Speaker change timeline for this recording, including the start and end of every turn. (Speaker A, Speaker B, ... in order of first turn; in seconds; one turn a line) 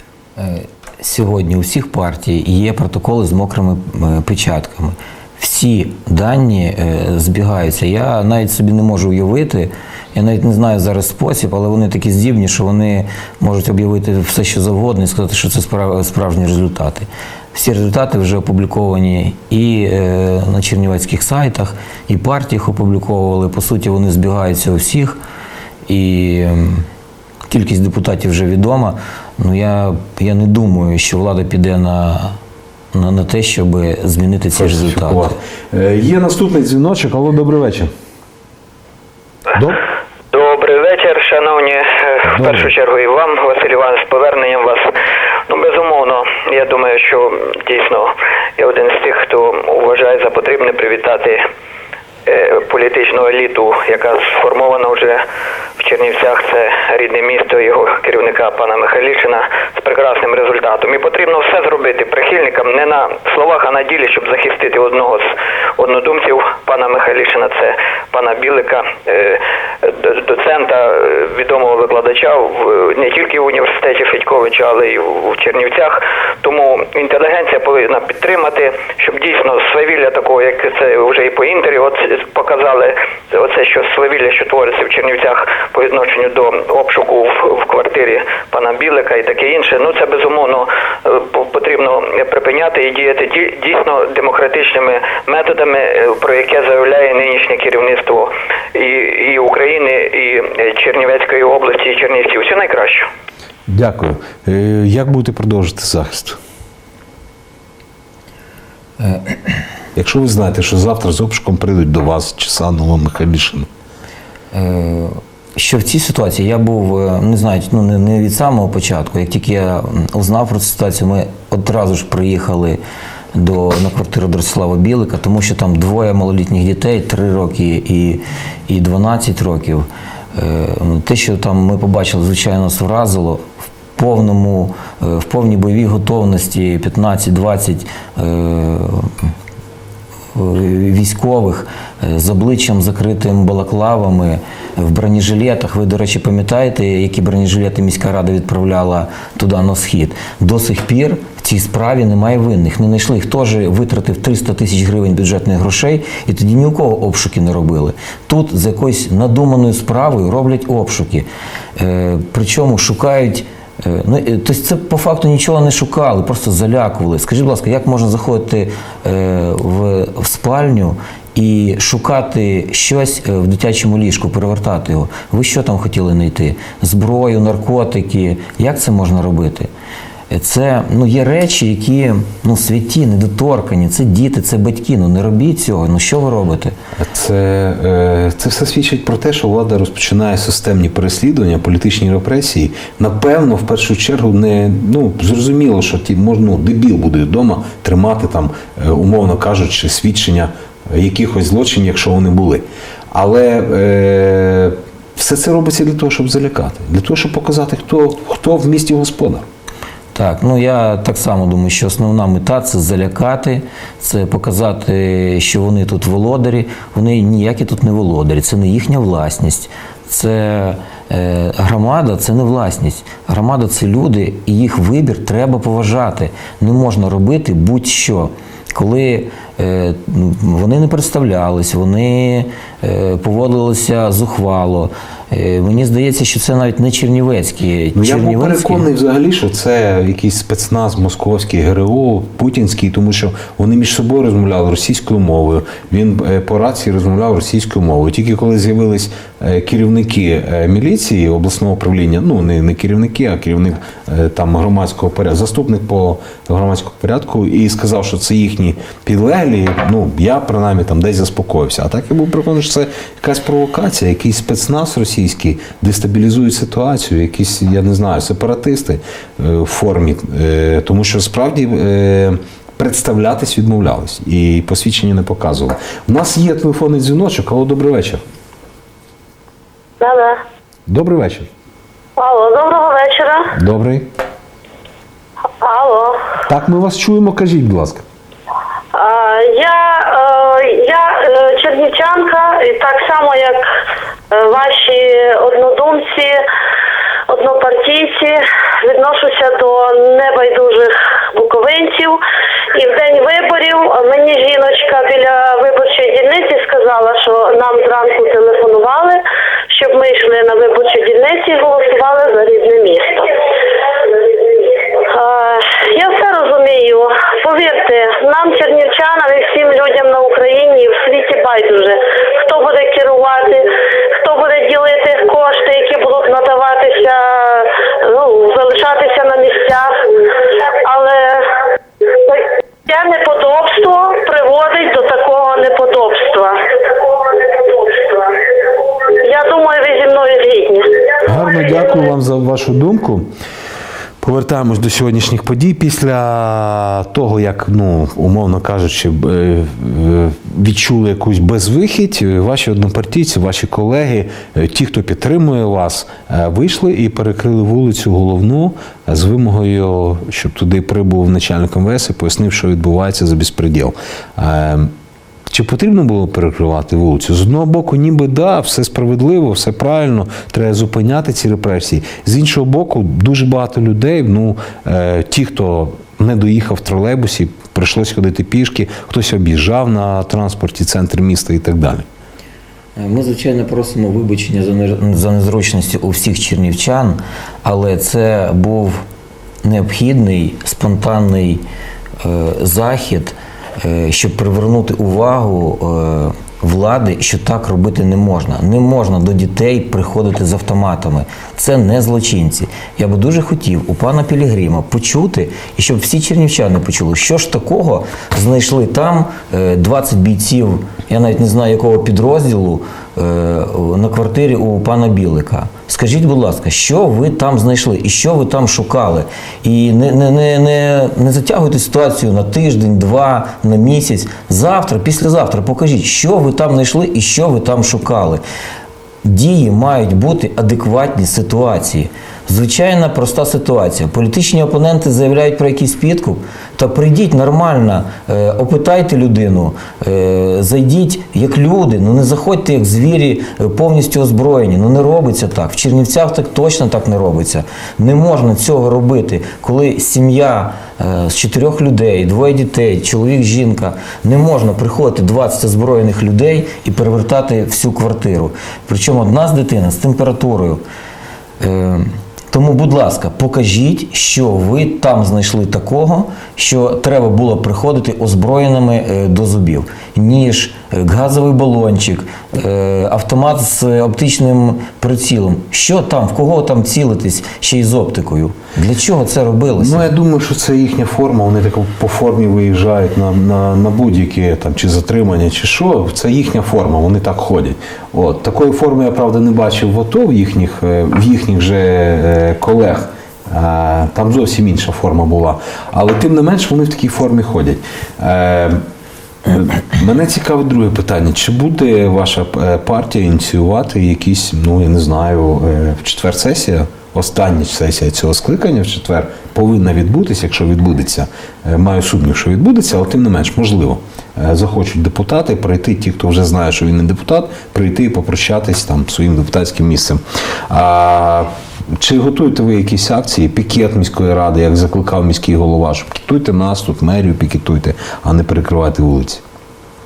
Speaker A: 0.4-25.2
Speaker A: 25.9-26.9
Speaker A: 27.5-32.4
Speaker A: 32.9-35.3
Speaker B: 34.5-37.9
Speaker B: 39.5-39.8
Speaker C: 40.3-44.9
Speaker B: 42.3-42.7
Speaker C: 45.5-51.5
Speaker C: 52.3-55.2
Speaker C: 55.8-103.1
Speaker B: 103.7-106.4
Speaker A: 109.0-109.6
Speaker B: 110.0-113.7
Speaker A: 114.5-122.8
Speaker A: 123.3-139.3
Speaker A: 140.3-161.3
Speaker A: 161.8-179.7
Speaker A: 180.3-186.8
Speaker B: 187.0-209.5
Speaker A: 210.1-238.8
Speaker B: 238.0-278.2
Speaker D: 280.0-280.4
Speaker B: 280.9-281.5
Speaker D: 282.2-283.5
Speaker B: 283.6-284.1
Speaker D: 285.6-286.3
Speaker B: 286.5-288.1
Speaker D: 288.9-293.7
Speaker D: 294.3-296.4
Speaker D: 297.3-302.2
Speaker D: 302.7-313.3
Speaker D: 315.0-330.1
Speaker D: 330.8-331.6
Speaker D: 332.2-338.4
Speaker D: 339.2-341.1
Speaker B: 341.2-343.3
Speaker B: 344.2-364.9
Speaker B: 365.5-382.1
Speaker A: 383.0-389.0
Speaker A: 389.6-391.6
Speaker A: 392.2-428.4
Speaker A: 429.2-460.8
Speaker A: 461.6-480.1
Speaker B: 479.8-498.8
Speaker B: 499.4-529.4